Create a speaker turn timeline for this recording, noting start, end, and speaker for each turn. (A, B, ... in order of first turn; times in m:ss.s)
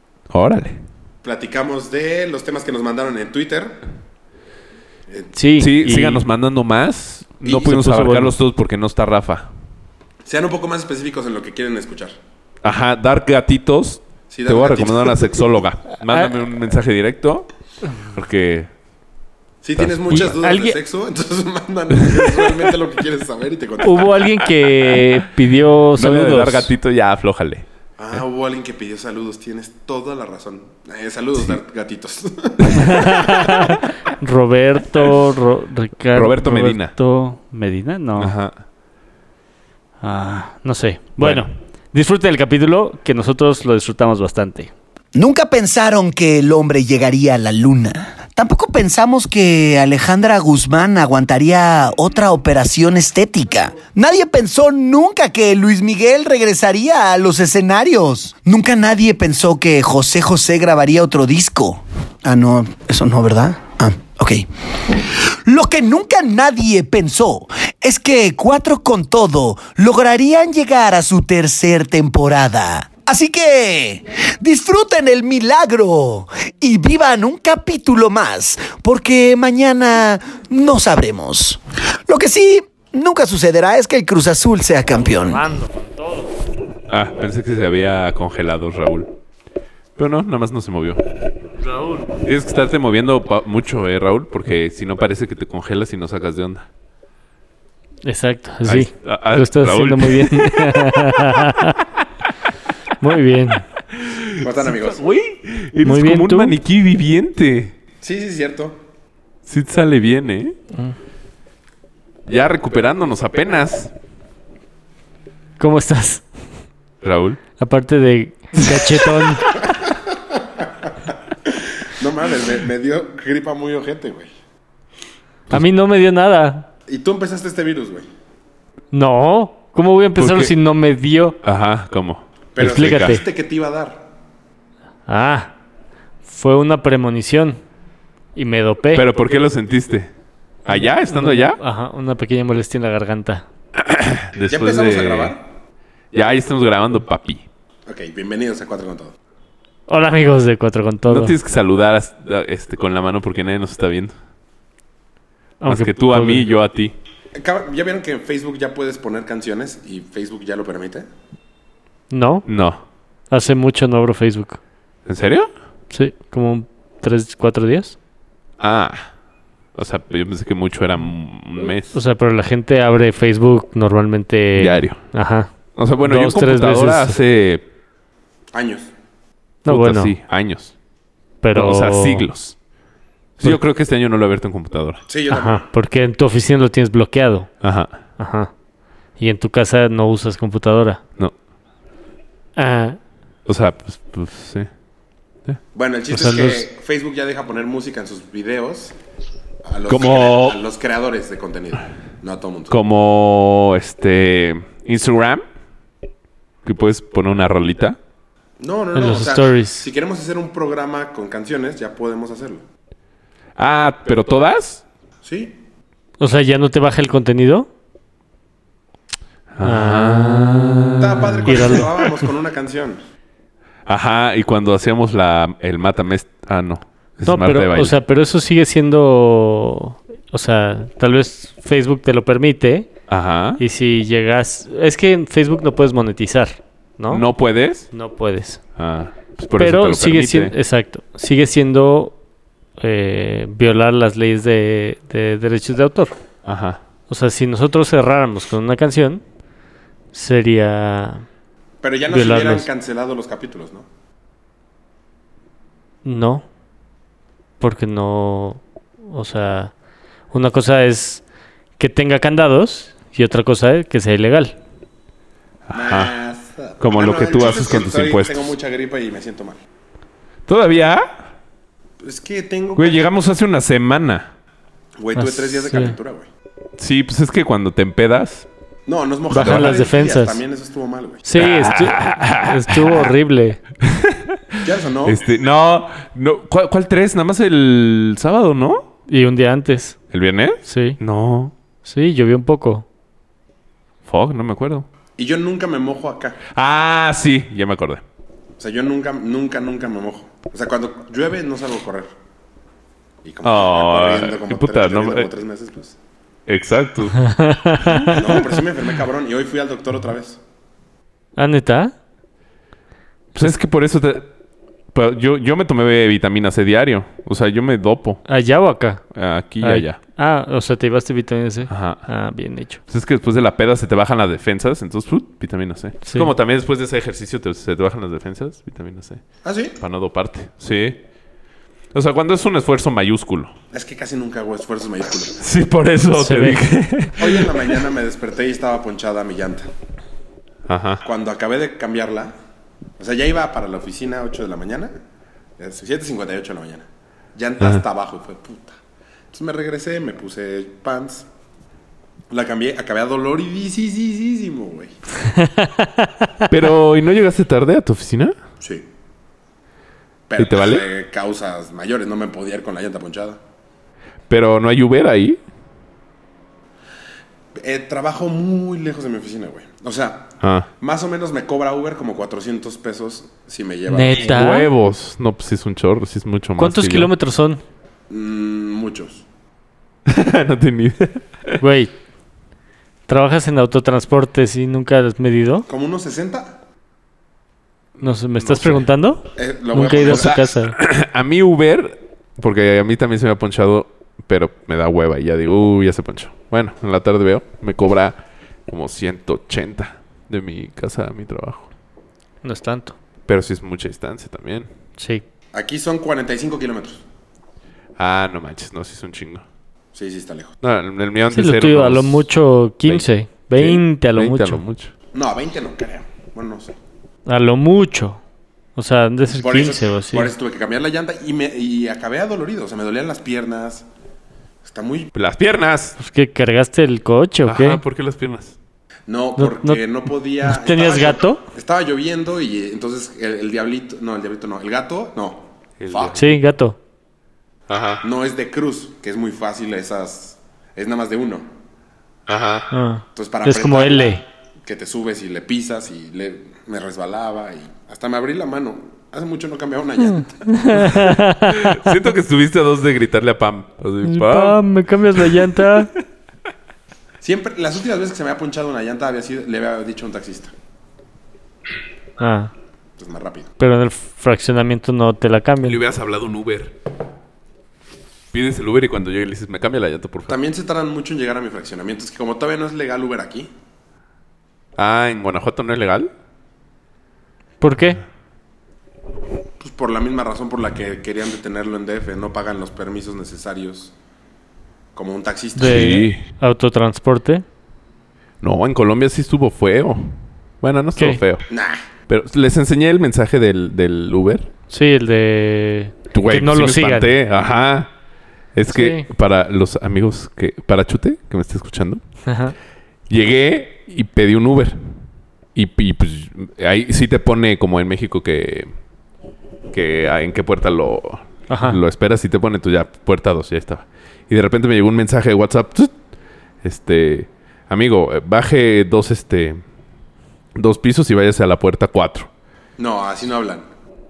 0:00.3-0:00.8 A
0:01.2-0:03.8 B
0:05.3-0:06.2 C
0:05.6-0:09.5 A
0:07.5-0:08.3 C
0:10.2-0:12.2 B
0:12.6-0:17.5 A
0:14.3-0:15.5 B
0:18.1-0:18.7 A
0:19.6-0:24.4 B
0:19.8-0:20.4 A
0:20.1-0:20.8 C
0:22.0-0:22.5 A
0:23.8-0:26.7 C
0:26.0-0:27.6 A
0:28.0-0:33.5 B
0:32.7-0:38.3 C
0:36.1-0:36.9 A
0:38.2-0:38.6 A
0:40.0-0:44.7 C
0:41.2-0:41.5 A
0:45.1-1:25.4 D
1:24.9-1:26.3 C
1:26.9-1:29.1 A
1:30.0-1:31.0 A
1:31.6-1:32.1 C
1:32.2-1:36.6 A
1:38.0-1:41.8 C
1:38.6-1:41.5 A
1:43.0-1:43.6 C
1:43.9-1:47.7 A
1:44.4-1:45.0 B
1:45.8-1:46.6 C
1:48.0-1:48.8 B
1:49.5-1:50.6 A
1:52.3-1:53.9 A
1:55.6-1:56.2 C
1:57.0-1:57.4 A
1:57.6-1:59.5 C
1:59.5-2:00.9 B
2:01.4-2:04.3 B
2:05.5-2:06.7 C
2:06.9-2:08.1 B
2:08.9-2:11.4 C
2:10.2-2:10.5 A
2:11.4-2:13.2 A
2:12.5-2:14.1 B
2:12.6-2:13.2 C
2:15.1-2:15.5 C
2:16.2-2:17.6 C
2:18.3-2:19.0 C
2:18.9-2:20.1 A
2:20.6-2:21.6 A
2:20.7-2:23.4 C
2:23.8-2:25.4 A
2:24.4-2:25.4 B
2:26.1-2:27.4 A
2:27.8-2:29.1 B
2:29.9-2:31.3 C
2:31.1-2:34.1 A
2:35.6-2:36.4 C
2:35.7-2:36.9 A
2:37.3-2:41.1 B
2:42.1-2:42.4 C
2:42.4-2:42.8 A
2:43.3-2:44.6 C
2:45.0-2:45.5 A
2:45.9-2:48.0 C
2:48.6-2:49.1 A
2:49.8-2:52.0 A
2:51.9-2:57.2 C
2:54.6-2:55.0 A
2:55.8-2:57.6 A
2:58.5-2:58.9 B
2:59.6-3:00.1 C
2:59.6-3:00.7 A
3:01.4-3:02.3 C
3:01.5-3:02.5 A
3:03.4-3:05.0 A
3:05.1-3:05.6 B
3:05.3-3:07.5 C
3:07.6-3:07.9 A
3:08.2-3:08.5 C
3:09.2-3:11.0 C
3:12.6-3:13.0 C
3:13.4-3:14.7 A
3:15.7-3:18.9 B
3:16.1-3:16.6 C
3:19.6-3:22.8 B
3:19.9-3:20.6 A
3:22.7-3:25.4 A
3:26.6-3:28.0 A
3:28.6-3:32.6 B
3:28.9-3:29.8 C
3:33.6-3:34.8 A
3:35.2-3:35.6 B
3:36.2-3:37.7 C
3:39.5-3:41.9 A
3:39.6-3:40.9 C
3:41.0-3:43.0 B
3:41.4-3:42.1 C
3:43.9-3:47.9 A
3:47.2-3:52.9 C
3:53.1-3:53.6 A
3:53.6-3:57.2 C
3:57.1-3:57.9 A
3:57.9-3:58.6 C
3:58.8-4:00.5 A
3:59.6-4:02.1 C
4:02.8-4:06.1 C
4:06.4-4:06.8 A
4:07.1-4:09.2 C
4:10.1-4:11.2 C
4:11.8-4:13.8 B
4:12.1-4:12.7 C
4:16.0-4:16.4 C
4:17.6-4:19.7 C
4:20.3-4:21.2 C
4:21.8-4:24.6 C
4:25.7-4:26.1 A
4:25.7-4:29.6 B
4:26.8-4:28.5 A
4:30.5-4:31.1 A
4:32.0-4:33.0 B
4:32.8-4:34.3 A
4:35.0-4:36.3 B
4:35.2-4:35.9 C
4:36.8-4:38.4 A
4:38.8-4:41.2 B
4:39.3-4:40.4 C
4:39.3-4:39.8 A
4:41.2-4:43.6 C
4:41.4-4:43.1 A
4:43.8-4:48.8 A
4:44.6-4:45.2 B
4:49.1-4:50.0 C
4:50.1-4:51.5 A
4:50.6-4:51.0 C
4:51.8-4:52.8 C
4:54.1-4:54.8 A
4:55.2-4:56.4 B
4:56.5-4:58.0 A
4:58.6-5:02.1 B
5:03.2-5:06.0 B
5:03.4-5:05.3 A
5:06.5-5:08.4 A
5:07.2-5:08.2 C
5:08.1-5:10.4 B
5:11.4-5:11.9 C
5:13.3-5:14.3 A
5:14.9-5:18.2 A
5:18.2-5:19.0 C
5:19.1-5:20.0 A
5:19.6-5:22.8 C
5:21.7-5:22.0 A
5:22.9-5:29.2 A
5:29.4-5:29.8 B
5:29.8-5:31.0 A
5:31.9-5:33.5 A
5:33.7-5:35.4 B
5:35.3-5:37.8 A
5:36.2-5:36.6 C
5:37.2-5:39.7 B
5:40.7-5:41.0 A
5:41.0-5:42.3 B
5:43.0-5:45.0 B
5:45.6-5:48.8 B
5:49.3-5:51.3 B
5:52.3-5:55.0 B
5:55.4-5:56.0 C
5:56.5-5:58.4 A
5:58.6-5:58.9 B
6:00.3-6:03.4 B
6:00.4-6:00.8 A
6:04.3-6:05.4 A
6:07.6-6:14.4 B
6:10.4-6:10.7 A
6:13.9-6:14.7 C
6:14.1-6:17.1 A
6:16.6-6:17.6 C
6:18.1-6:19.2 B
6:20.1-6:21.6 A
6:21.6-6:21.9 C
6:23.1-6:25.6 C
6:25.7-6:26.6 B
6:28.0-6:30.8 C
6:28.5-6:28.8 A
6:29.3-6:30.4 B
6:30.0-6:38.2 A
6:38.7-6:41.7 A
6:42.4-6:43.0 C
6:43.3-6:44.7 A
6:45.0-6:45.2 C
6:45.5-6:47.0 B
6:48.0-6:49.4 A
6:49.9-6:50.5 B
6:50.6-6:52.2 A
6:51.3-6:54.6 C
6:52.8-6:54.9 A
6:55.1-6:56.7 B
6:57.2-6:58.2 C
6:58.8-7:00.3 C
6:59.4-7:03.8 B
7:04.6-7:05.1 B
7:05.1-7:06.0 A
7:06.0-7:07.8 C
7:07.4-7:08.5 A
7:09.1-7:16.3 B
7:09.4-7:09.8 C
7:10.4-7:11.4 C
7:15.8-7:16.2 A
7:16.1-7:16.8 C
7:17.7-7:18.0 A
7:18.0-7:21.5 B
7:22.3-7:22.7 A
7:22.7-7:24.2 C
7:23.1-7:30.9 B
7:30.4-7:32.0 C
7:31.0-7:34.6 A
7:34.0-7:35.9 C
7:35.1-7:35.9 A
7:37.2-7:40.5 B
7:42.2-7:42.5 C
7:43.0-7:43.5 B
7:43.6-7:45.8 C
7:45.6-7:46.7 A
7:48.3-7:50.4 A
7:50.3-7:53.5 B
7:54.8-7:56.1 A
7:57.6-7:58.0 C
7:59.6-8:03.9 B
8:04.9-8:06.0 B
8:05.6-8:07.4 C
8:05.6-8:06.2 A
8:08.4-8:11.4 A
8:11.5-8:11.8 B
8:12.1-8:14.5 A
8:14.7-8:17.1 C
8:16.1-8:17.9 A
8:18.5-8:22.0 A
8:18.7-8:19.0 C
8:22.2-8:22.5 C
8:23.1-8:25.0 A
8:25.5-8:28.7 A
8:29.7-8:35.9 A
8:31.5-8:31.8 C
8:36.6-8:39.6 A
8:40.6-8:42.3 A
8:42.8-8:43.6 B